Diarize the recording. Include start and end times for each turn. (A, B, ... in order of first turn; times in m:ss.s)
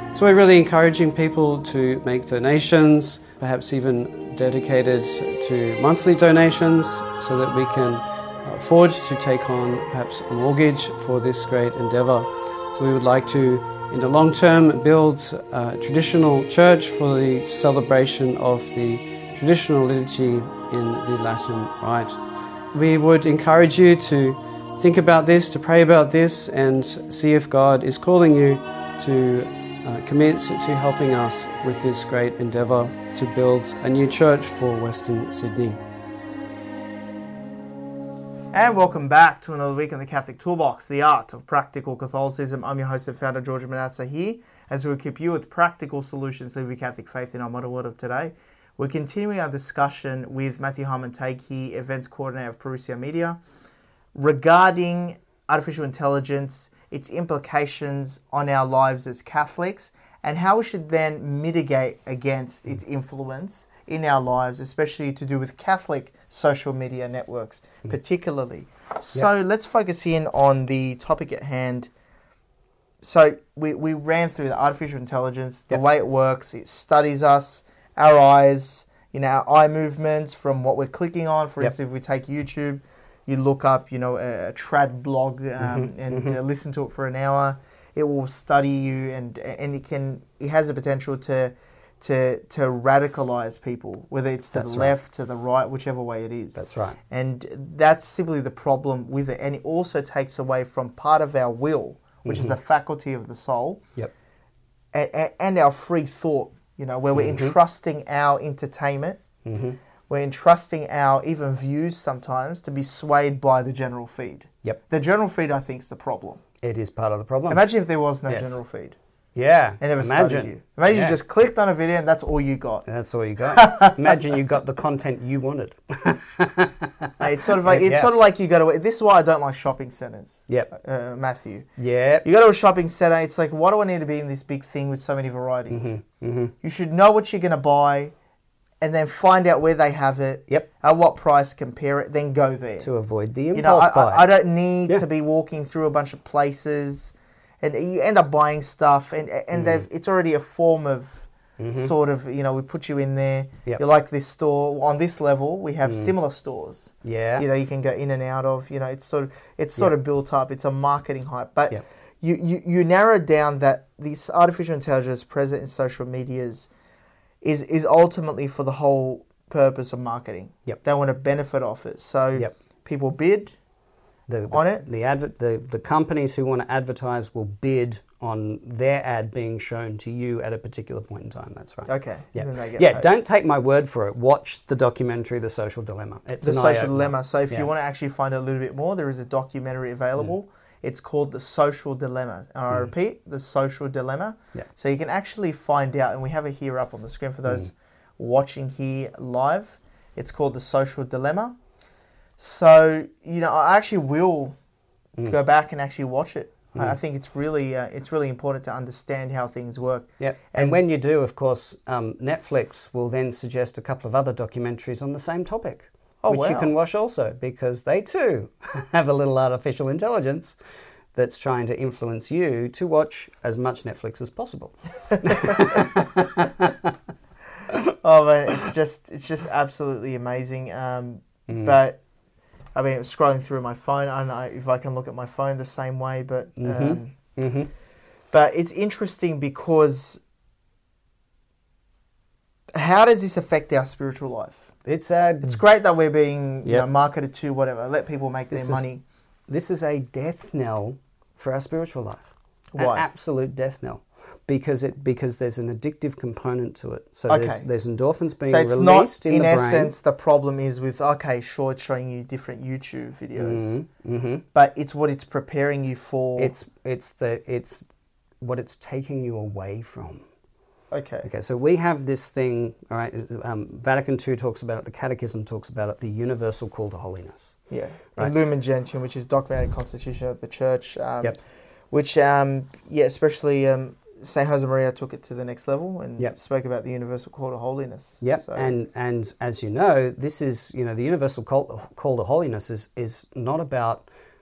0:00.1-0:22.2 A
0:22.7-0:35.8 A
0:38.5-0:53.4 B
0:54.1-1:11.9 B
1:13.0-1:43.8 B
1:25.6-1:26.4 C
1:34.5-1:34.9 C
1:36.5-1:37.0 C
1:42.2-1:42.6 C
1:44.9-1:49.2 B
1:47.1-1:47.5 C
1:49.4-1:49.8 C
1:50.1-1:56.4 B
1:56.6-1:57.6 C
1:57.5-1:59.0 B
1:58.3-1:58.6 C
1:59.3-2:01.2 C
1:59.8-2:02.8 B
2:02.8-2:08.1 C
2:03.5-2:04.2 B
2:07.2-2:11.7 B
2:11.8-2:12.2 C
2:12.2-2:15.9 B
2:15.7-2:16.5 C
2:16.6-2:18.1 B
2:18.8-2:22.9 B
2:22.8-2:24.3 C
2:23.5-2:46.7 B
2:29.5-2:29.8 C
2:31.6-2:31.9 C
2:35.8-2:36.1 C
2:37.0-2:37.4 C
2:47.4-2:53.5 B
2:54.3-3:07.7 C
2:54.5-2:54.8 B
3:01.9-3:03.1 B
3:06.4-3:21.6 B
3:22.4-3:24.6 B
3:25.3-3:30.8 B
3:30.2-3:40.6 C
3:36.2-3:36.7 B
3:41.1-3:46.9 C
3:45.2-3:46.0 B
3:48.0-3:52.0 B
3:51.5-3:51.8 C
3:52.7-3:57.1 B
3:56.6-3:57.7 C
3:58.3-4:00.2 B
4:02.7-4:04.7 B
4:04.8-4:05.6 C
4:05.4-4:09.0 B
4:08.5-4:08.8 C
4:09.5-4:19.9 C
4:12.7-4:13.0 B
4:17.3-4:17.6 B
4:18.4-4:23.7 B
4:23.4-4:24.4 C
4:24.5-4:26.5 B
4:26.4-4:27.8 C
4:28.4-4:30.2 C
4:30.9-4:31.3 B
4:31.2-4:37.6 C
4:37.7-4:41.4 B
4:41.9-4:48.7 B
4:48.2-4:54.0 C